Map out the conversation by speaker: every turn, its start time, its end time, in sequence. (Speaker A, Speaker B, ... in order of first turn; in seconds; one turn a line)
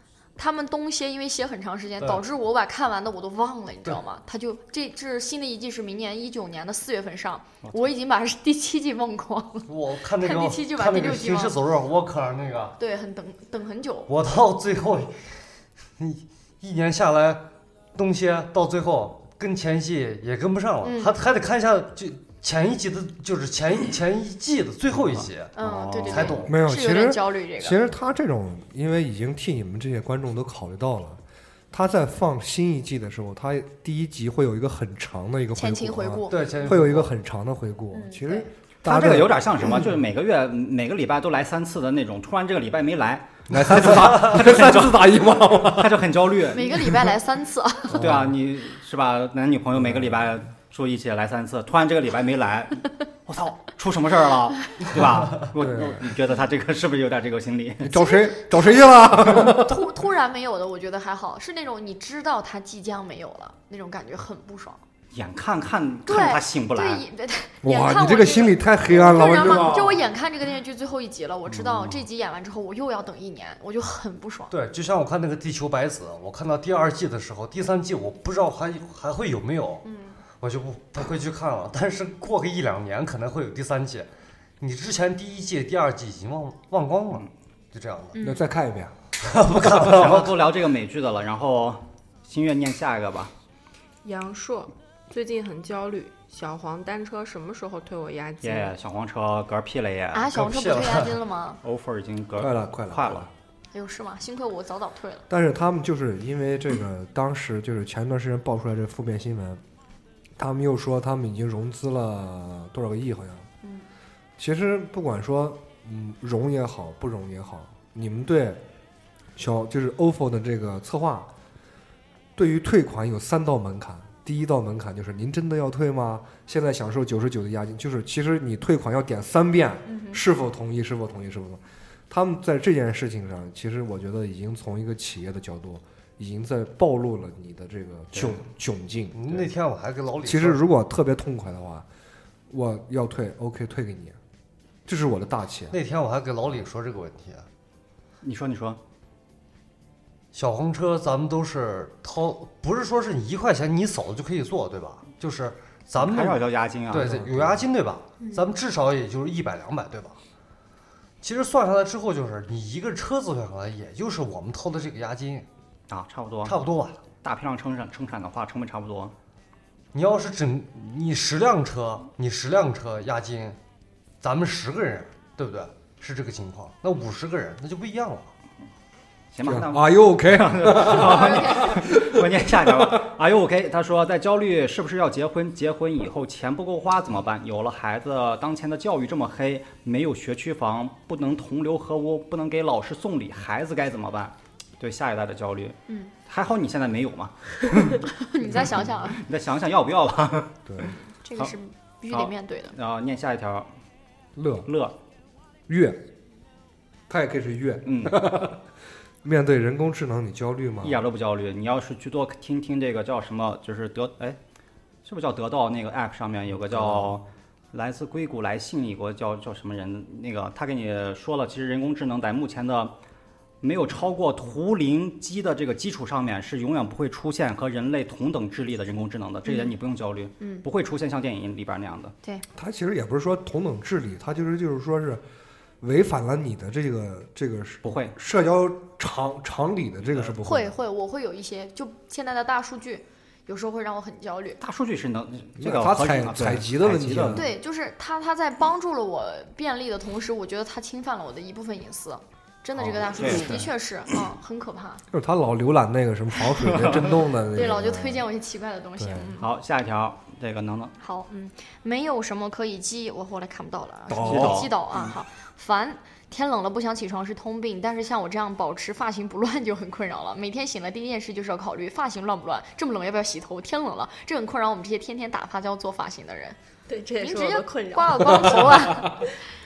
Speaker A: 0.3-11.6
Speaker B: 9.7-12.8
Speaker A: 12.8-14.1
Speaker B: 14.1-15.5
Speaker B: 16.0-25.5
Speaker A: 20.8-21.2
Speaker C: 25.0-26.4
Speaker A: 25.5-27.8
Speaker B: 26.1-26.5
Speaker D: 26.5-31.2
Speaker D: 31.7-39.9
Speaker A: 35.5-36.5
Speaker B: 36.3-37.1
Speaker A: 37.9-38.5
Speaker C: 38.8-46.9
Speaker D: 43.5-46.1
Speaker A: 46.5-48.0
Speaker D: 47.9-48.4
Speaker C: 47.9-57.9
Speaker D: 49.8-50.2
Speaker D: 55.5-56.1
Speaker D: 57.8-59.9
Speaker A: 57.9-58.3
Speaker A: 59.5-64.8
Speaker C: 65.1-67.0
Speaker A: 66.1-74.5
Speaker D: 67.6-70.0
Speaker B: 68.9-69.7
Speaker C: 71.5-72.0
Speaker B: 74.5-79.8
Speaker A: 79.8-80.2
Speaker B: 80.4-84.1
Speaker B: 84.6-88.2
Speaker A: 88.1-88.5
Speaker D: 88.2-88.9
Speaker B: 89.2-90.4
Speaker C: 89.5-93.3
Speaker E: 94.0-98.7
Speaker C: 98.4-100.3
Speaker A: 100.1-101.6
Speaker B: 100.3-101.2
Speaker C: 101.6-103.3
Speaker D: 102.4-103.3
Speaker A: 103.7-105.2
Speaker D: 105.3-109.6
Speaker D: 110.4-113.5
Speaker D: 114.4-118.6
Speaker D: 119.3-121.3
Speaker D: 122.3-139.5
Speaker A: 129.9-130.2
Speaker C: 138.1-138.4
Speaker B: 139.1-140.6
Speaker D: 140.2-141.8
Speaker D: 142.5-144.2
Speaker D: 144.8-145.8
Speaker B: 145.7-147.5
Speaker C: 148.2-148.8
Speaker B: 150.3-160.2
Speaker C: 156.0-157.2
Speaker D: 156.9-157.6
Speaker B: 161.2-165.5
Speaker C: 165.9-166.6
Speaker B: 166.4-167.0
Speaker C: 167.2-169.1
Speaker B: 169.9-173.6
Speaker B: 174.2-178.3
Speaker C: 179.3-200.8
Speaker D: 179.4-183.1
Speaker A: 180.9-181.8
Speaker A: 195.9-196.1
Speaker A: 198.1-199.2
Speaker D: 200.7-200.9
Speaker A: 200.8-202.7
Speaker C: 202.1-203.7
Speaker D: 204.3-204.7
Speaker C: 204.7-204.9
Speaker D: 205.7-206.0
Speaker D: 207.1-208.6
Speaker C: 207.8-208.2
Speaker D: 209.2-211.0
Speaker C: 210.8-214.4
Speaker C: 215.0-222.9
Speaker D: 216.7-217.2
Speaker C: 223.6-232.1
Speaker A: 229.4-229.7
Speaker D: 232.5-235.2
Speaker D: 235.8-240.8
Speaker C: 237.8-238.1
Speaker A: 240.4-244.6
Speaker C: 244.6-247.5
Speaker D: 245.6-247.4
Speaker A: 247.3-255.0
Speaker C: 252.8-253.6
Speaker D: 253.3-253.7
Speaker D: 255.1-258.2
Speaker A: 257.5-259.5
Speaker D: 259.0-259.3
Speaker C: 259.4-260.9
Speaker A: 261.0-276.6
Speaker D: 264.1-264.7
Speaker C: 264.2-264.7
Speaker E: 276.9-278.9
Speaker A: 277.2-279.2